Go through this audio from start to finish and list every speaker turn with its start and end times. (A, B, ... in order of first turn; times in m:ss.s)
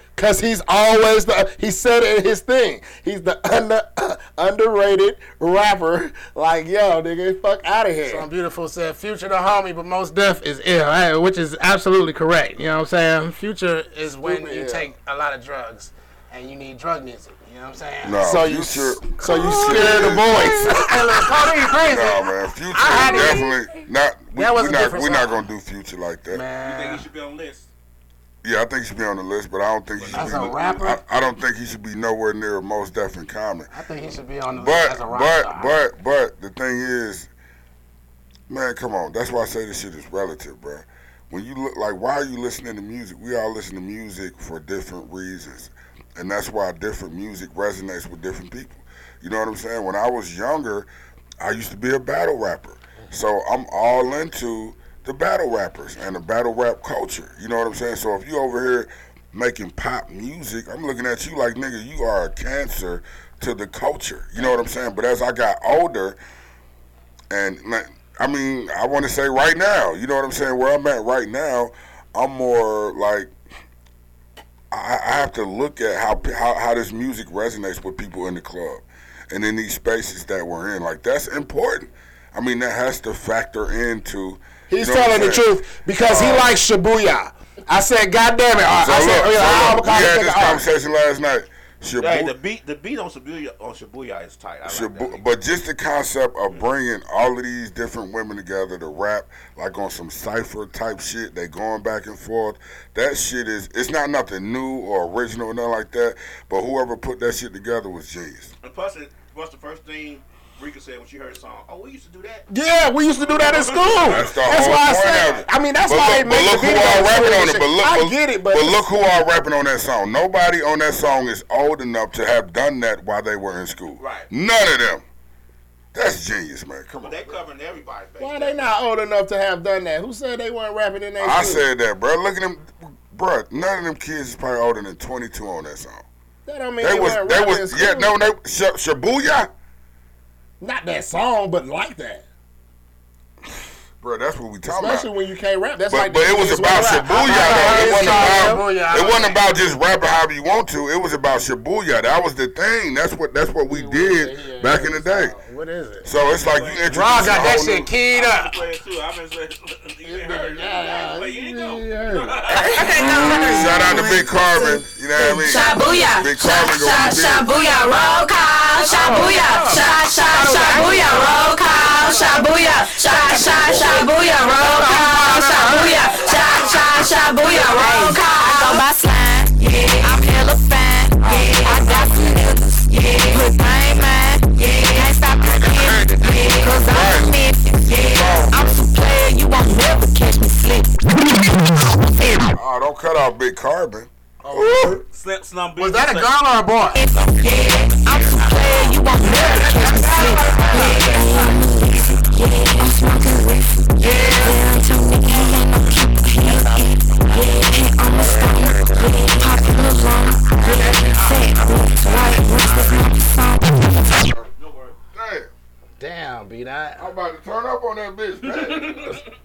0:00.2-0:08.3 A
0:08.0-0:18.3 B
0:14.2-0:14.9 A
0:18.0-0:20.8 C
0:18.2-0:21.3 A
0:19.3-0:23.5 B
0:21.8-0:26.4 C
0:24.4-0:25.4 B
0:26.3-0:27.0 B
0:26.6-0:27.7 D
0:28.4-0:33.7 C
0:30.0-0:31.0 B
0:30.2-0:30.7 D
0:33.7-0:35.7 B
0:34.5-0:37.3 C
0:38.5-0:50.9 C
0:51.4-1:06.2 C
1:07.3-1:13.3 C
1:14.7-1:26.6 C
1:24.7-1:30.6 A
1:28.7-1:32.3 C
1:32.0-1:35.2 D
1:34.6-1:48.5 C
1:48.6-1:52.5 D
1:52.5-1:58.8 A
1:53.2-1:54.7 D
1:53.7-1:54.0 B
1:54.0-2:05.0 C
2:04.0-2:04.3 D
2:05.9-2:07.4 C
2:07.0-2:08.7 D
2:08.2-2:11.6 A
2:11.2-2:16.0 C
2:16.4-2:18.1 A
2:16.8-2:19.5 C
2:20.6-2:22.2 A
2:24.0-2:25.1 C
2:24.7-2:28.6 A
2:25.9-2:35.3 C
2:27.2-2:29.4 B
2:33.7-2:35.4 A
2:35.4-2:36.1 B
2:36.0-2:37.9 C
2:36.3-2:42.9 D
2:36.9-2:38.6 B
2:40.0-2:43.8 A
2:42.5-2:44.6 B
2:43.5-2:47.6 C
2:45.2-3:12.5 E
2:48.8-2:51.5 B
2:53.1-2:56.2 B
2:57.5-2:58.8 B
3:01.2-3:01.6 C
3:05.5-3:07.4 C
3:07.9-3:08.8 C
3:12.5-3:15.0 C
3:14.4-3:15.0 B
3:15.0-3:16.4 D
3:15.8-3:17.0 B
3:16.9-3:34.2 E
3:19.3-3:21.1 B
3:24.0-3:24.6 B
3:28.1-3:28.5 C
3:30.6-3:31.6 B
3:34.1-3:34.5 C
3:34.6-3:35.0 D
3:35.1-3:35.5 C
3:36.0-3:37.0 B
3:37.0-3:39.2 C
3:38.6-3:39.2 D